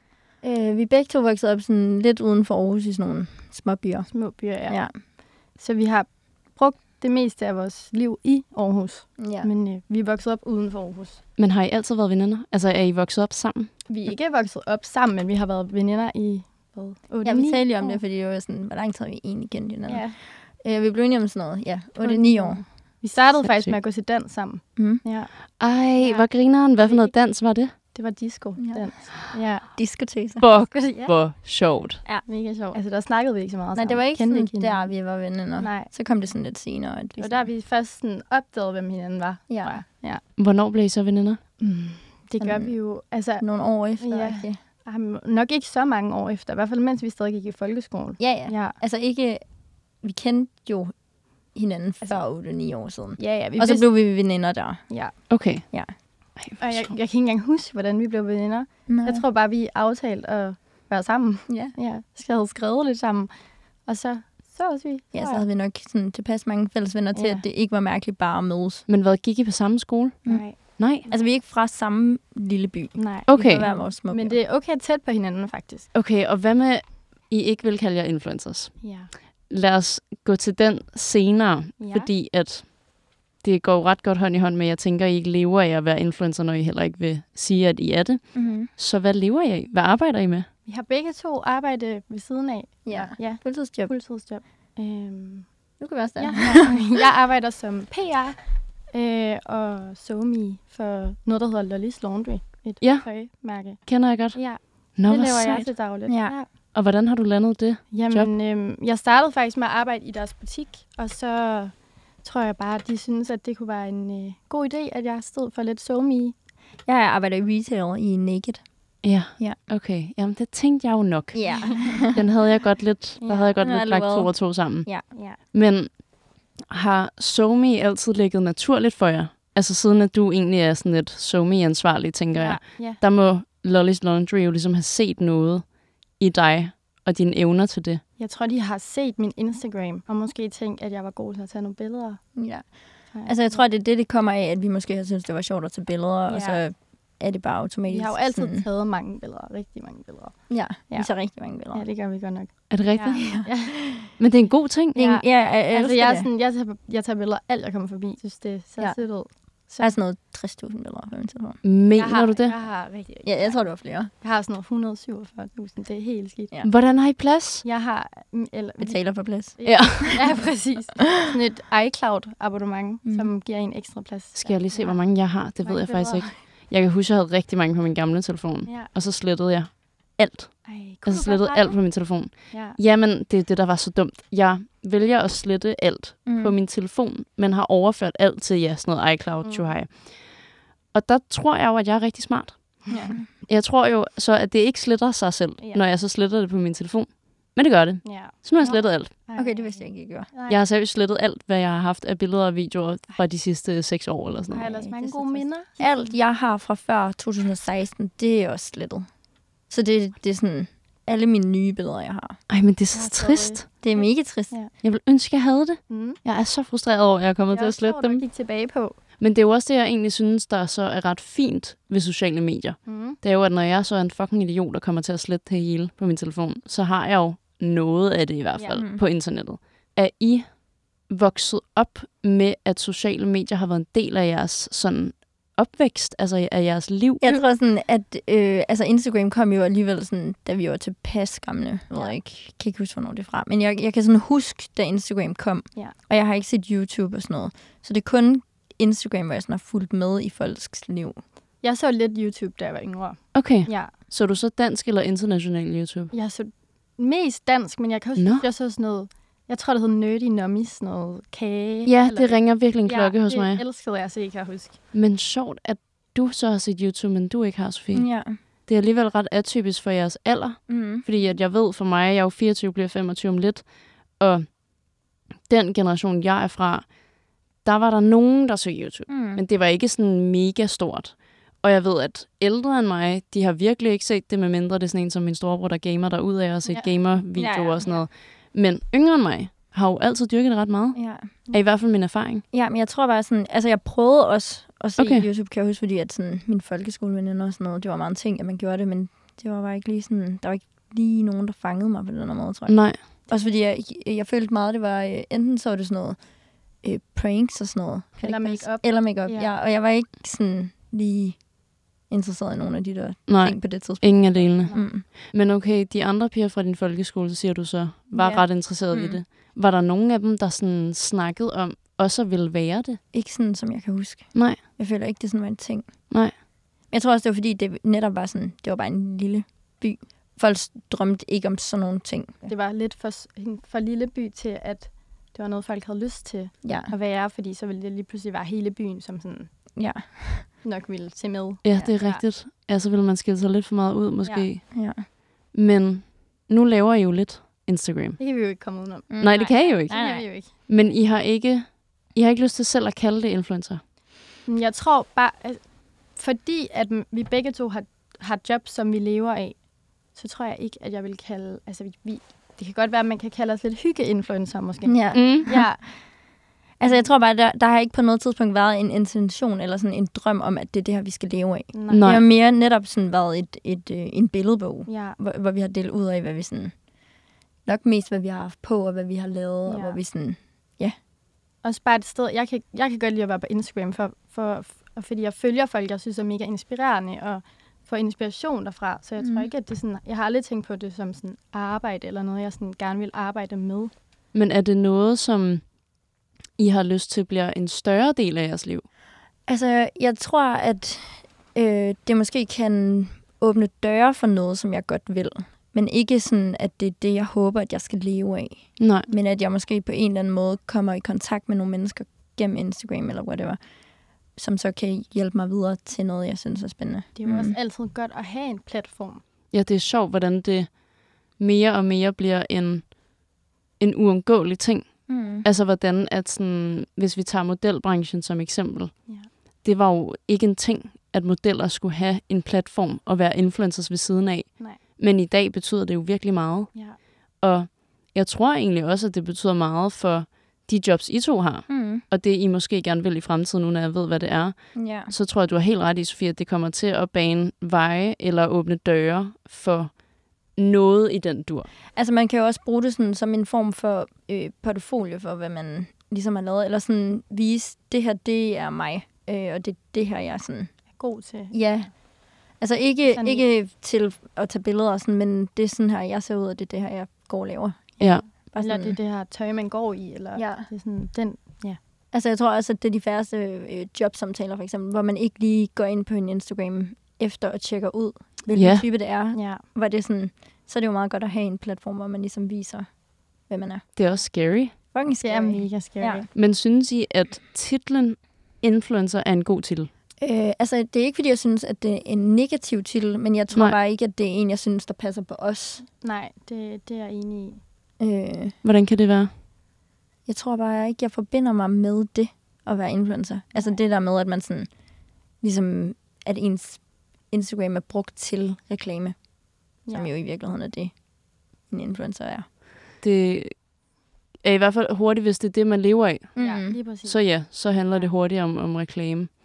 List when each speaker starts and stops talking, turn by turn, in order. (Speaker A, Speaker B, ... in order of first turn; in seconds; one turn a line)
Speaker A: 0.4-4.9
Speaker B: 4.1-11.2
Speaker A: 9.2-9.5
Speaker C: 11.4-13.9
Speaker A: 13.9-14.1
Speaker B: 14.0-18.0
Speaker A: 17.2-22.6
Speaker B: 19.9-20.2
Speaker B: 22.0-25.3
Speaker C: 23.4-23.7
Speaker A: 24.8-25.0
Speaker C: 25.6-27.7
Speaker B: 25.9-27.1
Speaker B: 27.7-29.8
Speaker A: 28.6-29.0
Speaker A: 29.7-30.5
Speaker C: 30.4-32.0
Speaker B: 30.7-31.1
Speaker B: 32.2-35.9
Speaker A: 33.7-37.5
Speaker B: 37.2-40.2
Speaker A: 39.5-39.8
Speaker C: 40.4-41.4
Speaker B: 41.6-48.8
Speaker A: 42.4-44.6
Speaker A: 48.2-49.5
Speaker A: 50.0-54.9
Speaker B: 53.2-53.9
Speaker B: 54.9-55.2
Speaker C: 55.3-55.6
Speaker A: 55.7-55.9
Speaker C: 56.4-56.9
Speaker B: 56.6-65.4
Speaker A: 58.9-59.2
Speaker A: 61.5-61.7
Speaker A: 65.1-68.8
Speaker B: 67.1-67.4
Speaker C: 68.9-71.0
Speaker A: 70.2-74.4
Speaker B: 70.2-71.2
Speaker B: 73.0-75.9
Speaker C: 73.3-73.7
Speaker C: 75.9-82.8
Speaker B: 78.8-79.1
Speaker B: 81.8-82.1
Speaker C: 83.3-90.5
Speaker A: 88.3-88.7
Speaker B: 90.6-106.5
Speaker A: 92.8-93.9
Speaker A: 95.8-96.8
Speaker C: 102.8-103.1
Speaker C: 103.8-105.7
Speaker A: 106.0-106.3
Speaker C: 106.7-108.3
Speaker B: 107.9-116.3
Speaker A: 116.8-119.6
Speaker C: 119.0-138.0
Speaker A: 121.3-122.2
Speaker B: 121.5-122.0
Speaker B: 123.2-123.5
Speaker A: 123.6-125.1
Speaker B: 125.1-125.4
Speaker B: 132.3-133.0
Speaker B: 138.2-142.4
Speaker A: 142.3-148.7
Speaker B: 143.1-143.6
Speaker B: 146.3-146.6
Speaker B: 147.9-153.8
Speaker A: 150.5-151.8
Speaker C: 152.7-153.4
Speaker A: 153.1-154.1
Speaker C: 154.2-154.9
Speaker A: 154.9-156.3
Speaker B: 154.9-160.0
Speaker A: 158.8-161.6
Speaker C: 161.6-162.5
Speaker B: 161.9-166.5
Speaker A: 163.2-164.1
Speaker C: 166.6-167.6
Speaker B: 167.6-176.4
Speaker A: 168.8-170.4
Speaker C: 169.6-170.2
Speaker A: 173.0-173.3
Speaker C: 174.3-190.4
Speaker B: 178.7-178.9
Speaker B: 180.6-182.8
Speaker A: 186.2-186.5
Speaker B: 189.4-189.8
Speaker C: 190.9-199.1
Speaker B: 192.8-193.1
Speaker A: 192.9-193.3
Speaker B: 195.6-195.8
Speaker B: 198.0-200.6
Speaker A: 199.3-200.3
Speaker C: 200.5-204.7
Speaker B: 204.5-206.1
Speaker A: 204.6-209.1
Speaker A: 209.7-212.4
Speaker C: 212.5-213.6
Speaker B: 212.9-214.7
Speaker A: 213.8-214.6
Speaker C: 214.8-218.2
Speaker B: 215.9-216.2
Speaker B: 217.5-219.0
Speaker C: 219.2-237.4
Speaker B: 222.8-223.2
Speaker A: 228.7-229.0
Speaker A: 237.2-251.2
Speaker B: 251.6-253.9
Speaker C: 253.3-256.1
Speaker B: 256.1-264.8
Speaker C: 258.1-258.4
Speaker C: 261.9-263.6
Speaker C: 264.9-274.6
Speaker A: 267.9-268.4
Speaker A: 270.7-271.1
Speaker C: 275.4-277.0
Speaker C: 277.6-292.4
Speaker A: 279.1-279.4
Speaker B: 286.6-286.9
Speaker A: 287.4-287.8
Speaker B: 287.6-288.1
Speaker A: 290.9-291.3
Speaker A: 292.5-306.2
Speaker C: 295.0-295.3
Speaker C: 302.7-303.0
Speaker A: 306.8-311.5
Speaker B: 308.2-309.5
Speaker A: 312.1-315.1
Speaker C: 313.3-323.0
Speaker B: 314.4-314.9
Speaker A: 318.1-319.2
Speaker A: 323.1-326.1
Speaker C: 324.3-324.6
Speaker A: 326.9-332.5
Speaker B: 332.4-339.6
Speaker A: 336.6-336.9
Speaker A: 339.8-340.5
Speaker B: 340.6-342.2
Speaker C: 341.6-344.9
Speaker A: 344.7-345.1
Speaker C: 345.5-348.2
Speaker B: 348.2-350.5
Speaker A: 349.1-350.3
Speaker C: 349.2-353.8
Speaker B: 354.4-366.1
Speaker A: 364.8-365.8
Speaker C: 365.1-365.5
Speaker A: 366.8-376.8
Speaker B: 371.7-372.1
Speaker C: 371.9-372.2
Speaker B: 374.9-375.2
Speaker A: 377.6-380.9
Speaker B: 379.7-380.0
Speaker B: 381.6-393.9
Speaker A: 389.2-389.5
Speaker C: 394.3-395.7
Speaker C: 396.6-398.9
Speaker A: 399.4-413.6
Speaker C: 408.8-409.1
Speaker A: 414.3-417.6
Speaker B: 417.1-419.2
Speaker C: 419.5-422.9
Speaker C: 423.8-450.0
Speaker A: 425.1-425.4
Speaker B: 429.1-429.3
Speaker B: 436.7-437.0
Speaker A: 441.7-442.0
Speaker A: 444.7-445.1
Speaker C: 450.5-451.7
Speaker A: 451.9-460.7
Speaker B: 460.9-461.9
Speaker A: 461.5-469.0
Speaker B: 463.1-463.5
Speaker C: 468.0-468.2
Speaker B: 468.0-471.8
Speaker A: 470.3-470.7
Speaker A: 472.1-483.9
Speaker C: 478.5-478.9
Speaker B: 479.3-479.6
Speaker C: 483.9-484.7
Speaker A: 484.9-486.2
Speaker B: 485.2-486.3
Speaker C: 486.3-489.9
Speaker A: 490.2-495.8
Speaker B: 496.0-497.6
Speaker A: 498.0-498.6
Speaker C: 498.6-499.3
Speaker A: 500.2-504.7
Speaker A: 505.4-509.2
Speaker A: 509.8-511.0
Speaker B: 509.8-510.1
Speaker A: 511.7-512.5
Speaker C: 513.0-513.7
Speaker C: 514.4-516.3
Speaker A: 516.4-516.8
Speaker B: 516.4-518.1
Speaker C: 517.0-519.3